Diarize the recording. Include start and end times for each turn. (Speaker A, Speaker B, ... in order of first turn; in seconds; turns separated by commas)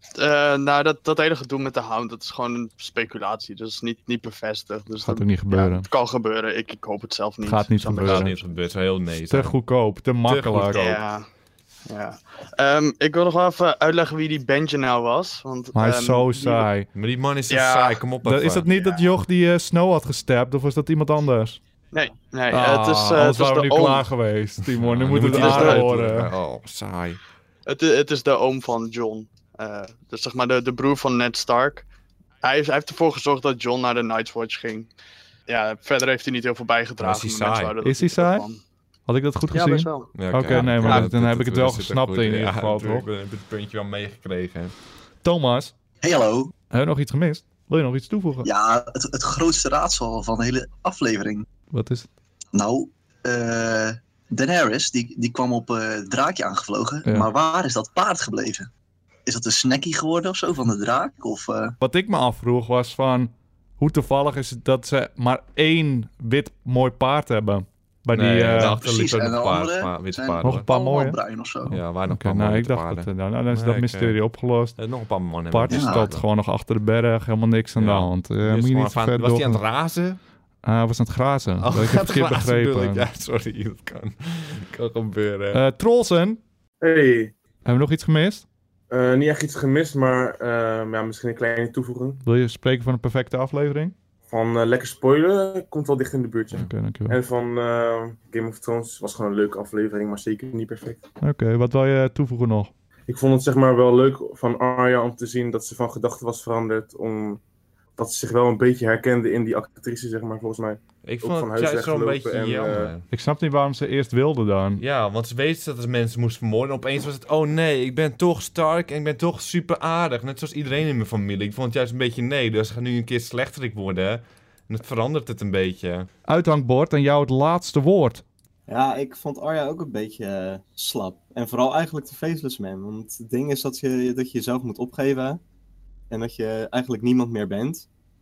Speaker A: 0.2-8.4, Speaker B: 5.0-5.9, Speaker B: 7.4-8.3, Speaker C: 8.0-9.6, Speaker B: 9.3-10.8, Speaker C: 10.2-11.0, Speaker A: 10.7-11.3, Speaker A: 11.9-16.7, Speaker B: 15.7-16.9, Speaker C: 16.9-18.6, Speaker A: 17.5-18.0, Speaker B: 18.2-21.6, Speaker A: 21.9-24.1, Speaker B: 22.5-26.3, Speaker C: 24.8-27.2, Speaker A: 25.2-25.8, Speaker A: 27.7-31.9, Speaker A: 32.4-34.9, Speaker A: 35.5-38.6, Speaker C: 37.0-37.8, Speaker B: 37.8-38.5, Speaker B: 39.1-43.1, Speaker A: 39.5-41.0, Speaker C: 40.1-44.7, Speaker B: 45.2-45.7, Speaker D: 46.0-46.5, Speaker B: 46.7-48.5, Speaker D: 48.4-51.5, Speaker B: 51.7-52.1, Speaker D: 52.5-58.7, Speaker D: 59.2-61.7, Speaker B: 61.8-68.8, Speaker C: 68.1-70.7, Speaker D: 68.7-71.8, Speaker B: 70.4-71.2, Speaker C: 71.7-74.2, Speaker B: 72.1-74.8, Speaker C: 74.8-76.2, Speaker B: 75.5-79.6, Speaker D: 75.7-76.0, Speaker C: 77.8-80.2, Speaker B: 80.6-83.1, Speaker C: 81.6-85.6, Speaker B: 85.5-86.4, Speaker E: 86.8-87.3, Speaker B: 87.7-88.4, Speaker E: 88.9-92.2, Speaker B: 92.2-93.9, Speaker E: 94.3-101.0, Speaker B: 96.5-97.2, Speaker B: 101.2-102.7, Speaker E: 103.1-107.4, Speaker E: 108.0-112.9, Speaker C: 111.0-113.0, Speaker B: 113.1-114.8, Speaker C: 114.8-126.1, Speaker B: 126.3-128.2, Speaker F: 128.7-135.4, Speaker F: 136.1-137.9